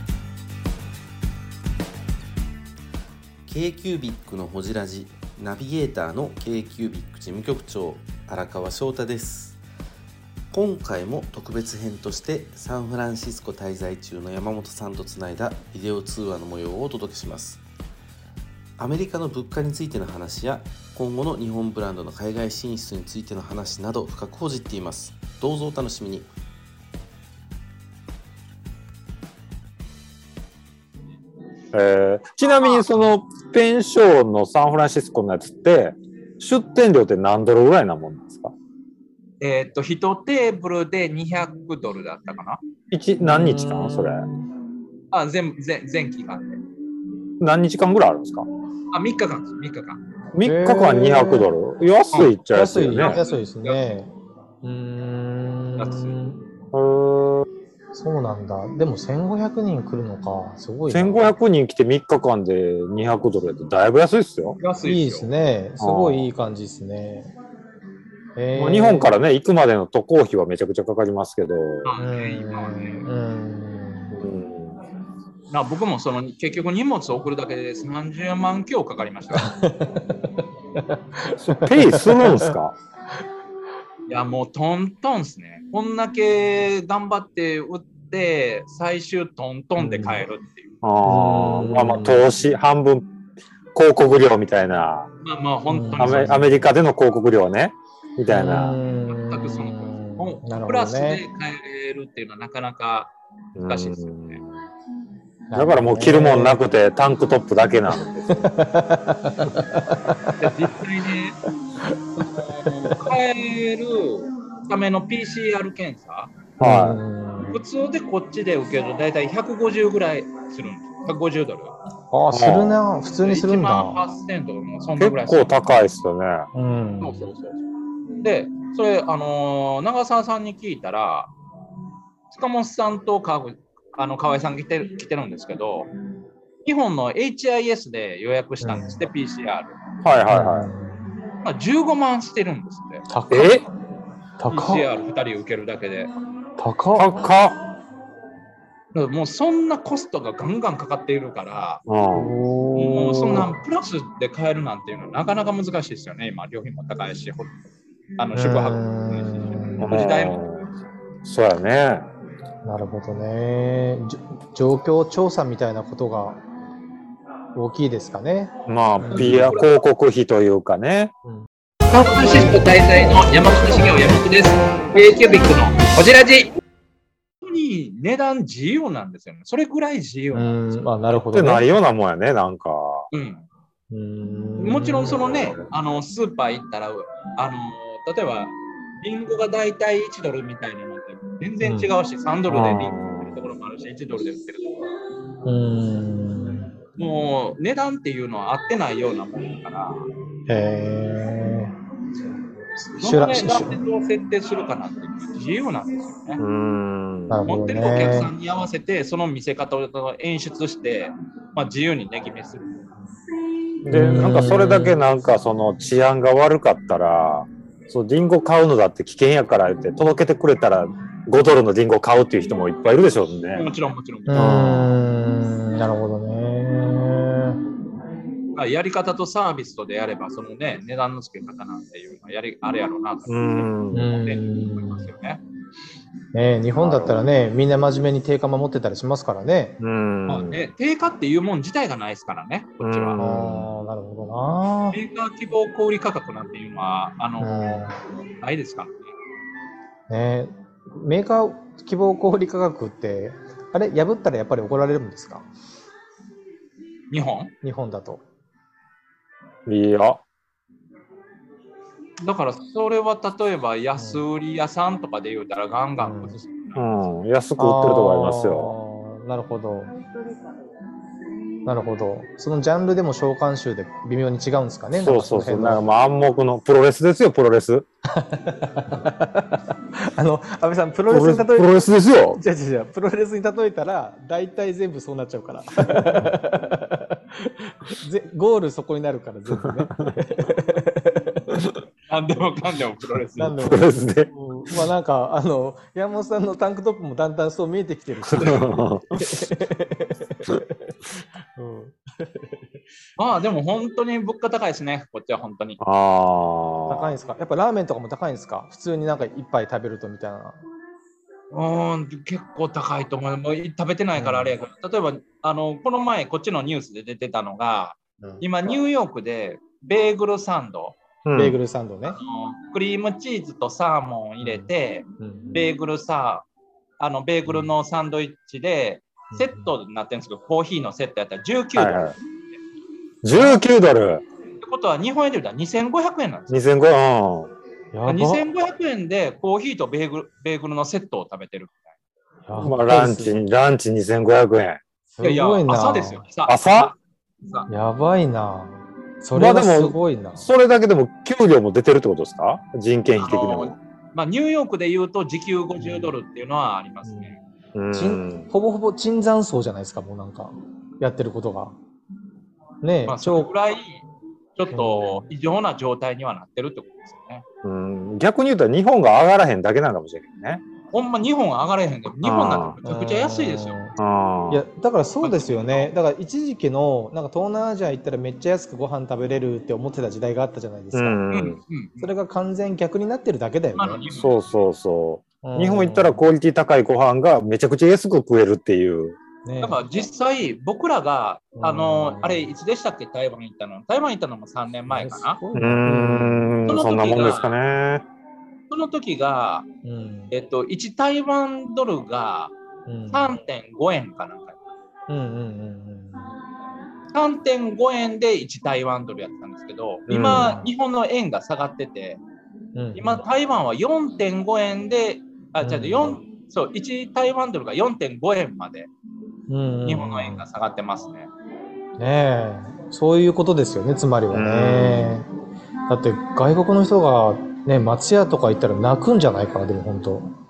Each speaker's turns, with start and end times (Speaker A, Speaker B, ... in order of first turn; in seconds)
Speaker A: 3.5-9.6, 10.5-17.6, 18.8-26.3
Speaker B: 31.7-38.5, 42.9-44.2, 47.4-48.5, 50.3-53.2, 56.7-57.5, 60.9-64.6, 65.8-66.3, 68.5-71.9, 74.1-74.8, 81.3-82.7, 90.8-93.1, 93.7-95.1, 96.0-98.8, 103.5-104.4, 105.5-108.4, 116.6-117.0, 122.3-122.8, 125.0-126.5, 140.0-140.7, 143.3-143.7, 146.9-147.6, 151.8-152.3, 159.8-160.7, 161.2-162.1, 168.7-171.1, 181.2-183.1, 192.5-193.4, 206.4-207.4, 213.8-223.7, 224.3-224.9, 233.3-234.1, 236.8-237.2, 239.8-240.6, 242.8-243.7, 259.6-260.2, 266.7-268.7, 274.9-277.9, 281.1-282.4, 293.6-294.3, 298.3-299.2, 305.8-307.2, 321.2-321.6, 331.7-332.1, 333.2-334.2, 336.5-337.5, 342.6-344.8, 346.4-346.9, 349.3-353.8, 357.7-358.5, 367.6-370.6, 372.2-372.8, 374.0-374.6, 380.9-381.6, 384.1-389.2, 395.5-398.1, 410.1-410.5, 424.3-425.1
Speaker C: 32.5-32.8, 39.4-42.6, 45.1-46.6, 48.9-50.0, 53.0-53.8, 55.8-56.1, 64.6-65.3, 71.8-73.0, 75.5-79.5, 84.1-90.7, 95.2-96.3, 99.0-103.1, 103.6-104.4, 110.4-111.4, 112.2-116.3, 117.5-121.7, 123.2-125.7, 127.0-127.6, 128.2-131.3, 132.3-135.9, 136.6-139.8, 141.4-143.5, 144.5-146.1, 148.9-151.8, 152.8-157.6, 158.2-160.4, 169.1-169.7, 171.9-176.5, 177.4-181.2, 183.1-183.4, 184.6-194.8, 197.0-200.0, 203.0-206.4, 207.4-212.8, 223.5-224.4, 228.5-235.4, 240.3-243.2, 244.9-249.0, 257.1-257.5, 262.2-267.1, 292.1-293.5, 303.2-305.8, 311.5-320.9, 322.1-326.4, 327.0-332.6, 334.6-336.6, 338.1-341.9, 345.2-347.7, 353.2-357.4, 363.1-364.0, 364.6-367.4, 370.9-373.8, 375.2-375.9, 381.3-382.1, 383.7-384.3, 389.6-395.4, 396.6-397.6, 398.7-399.6, 400.3-402.5, 403.1-404.6, 407.1-412.2, 412.9-418.9, 419.8-421.3
Speaker D: 43.2-44.3, 50.4-51.5, 52.5-54.1, 54.6-56.4, 57.9-61.4, 64.8-67.3, 68.3-69.1, 72.0-74.2, 79.3-80.1, 80.9-82.5, 89.8-90.2, 91.0-92.2, 95.7-96.7, 98.3-101.2, 105.5-106.7, 108.3-110.6, 116.6-117.6, 122.1-124.1, 126.5-127.3, 138.6-139.1, 140.3-141.1, 143.1-143.7, 144.4-144.9, 146.6-147.3, 152.1-153.6, 158.3-160.0, 162.6-166.4, 167.5-169.6, 173.7-174.1, 180.3-181.7, 183.9-185.6, 191.6-191.9, 195.4-196.7, 200.5-201.7, 202.9-203.8, 207.3-208.3, 213.9-215.0, 224.3-227.6, 233.9-235.1, 236.3-239.8, 243.2-245.0, 247.4-248.0, 250.1-255.4, 257.6-258.2, 263.9-264.3, 266.0-266.4, 267.6-269.9, 271.6-275.9, 278.2-279.5, 280.1-291.6, 293.4-300.6, 301.6-302.7, 306.9-310.6, 314.1-314.6, 321.3-322.2, 324.4-325.8, 327.5-327.8, 329.3-329.7, 337.9-338.5, 342.5-343.4, 345.1-346.3, 347.7-350.5, 355.8-356.1, 357.0-357.3, 357.9-361.7, 362.8-363.5, 364.7-365.3, 372.8-373.9, 374.5-381.2, 382.0-384.3, 385.4-386.3, 389.4-389.8, 391.6-392.5, 394.9-396.5, 399.8-400.3, 402.9-403.4, 405.1-406.3, 410.1-410.7, 412.7-413.2, 415.6-416.2, 419.5-420.4, 422.0-425.3, 425.9-430.3